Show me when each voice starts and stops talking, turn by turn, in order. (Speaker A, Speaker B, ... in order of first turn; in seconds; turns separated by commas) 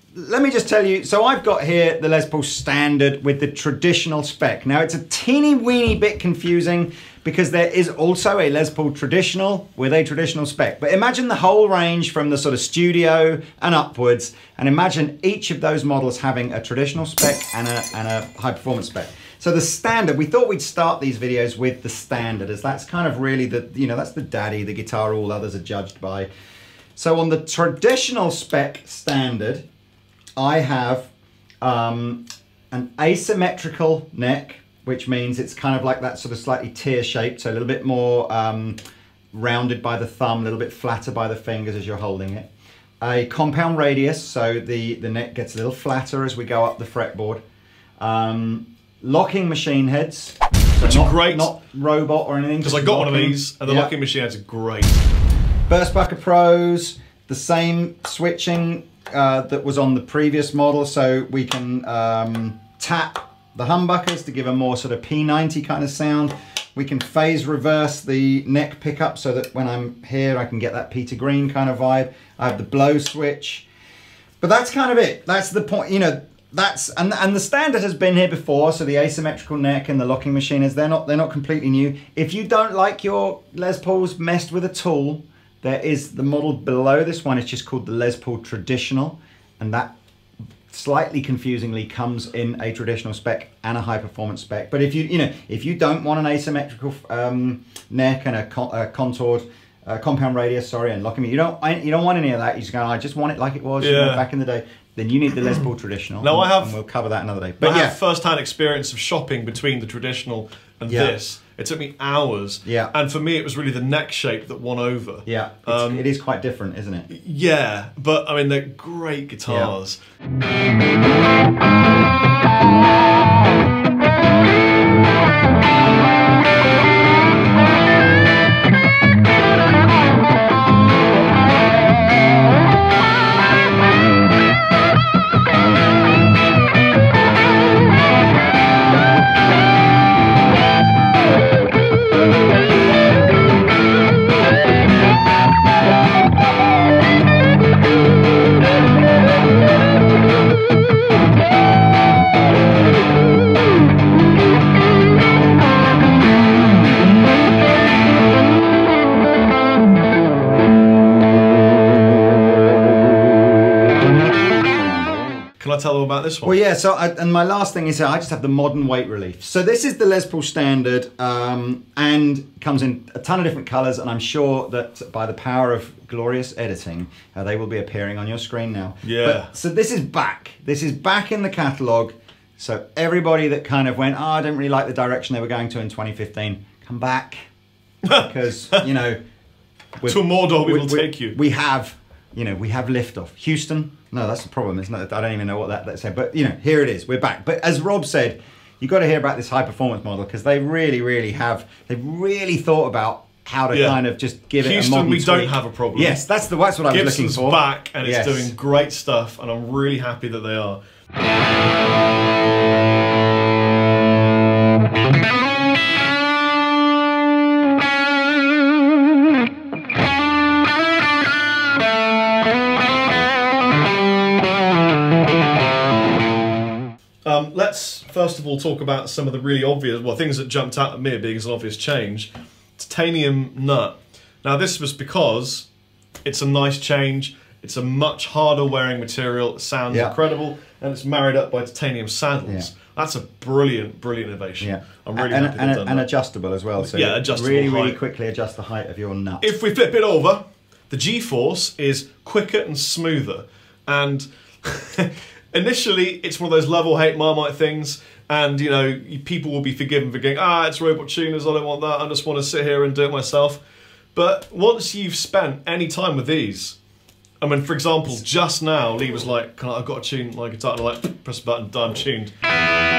Speaker A: 0.1-26.3, Speaker A: 26.9-29.6, Speaker A: 30.4-31.1, Speaker A: 31.6-38.8, Speaker A: 39.3-42.5, Speaker A: 43.0-47.4, Speaker A: 48.0-53.9, Speaker B: 50.8-51.5, Speaker B: 52.6-55.0, Speaker A: 55.7-73.7, Speaker A: 74.4-89.9, Speaker A: 90.7-108.0, Speaker B: 103.8-104.2, Speaker B: 106.2-106.8, Speaker B: 107.6-116.0, Speaker A: 110.9-111.2, Speaker A: 112.6-112.9, Speaker A: 115.2-117.1, Speaker B: 117.1-120.0, Speaker A: 119.5-119.7, Speaker B: 165.6-166.6, Speaker A: 166.4-187.5, Speaker B: 179.0-179.5, Speaker B: 188.0-188.8, Speaker A: 188.1-189.2, Speaker A: 190.0-208.5, Speaker B: 190.1-191.4, Speaker B: 203.7-204.0, Speaker B: 204.6-206.2, Speaker B: 206.9-210.8, Speaker B: 227.2-235.7, Speaker B: 236.2-246.1, Speaker A: 239.9-240.1, Speaker A: 244.6-249.5, Speaker B: 246.8-248.0, Speaker B: 249.4-263.6, Speaker B: 264.1-266.8, Speaker B: 267.4-272.3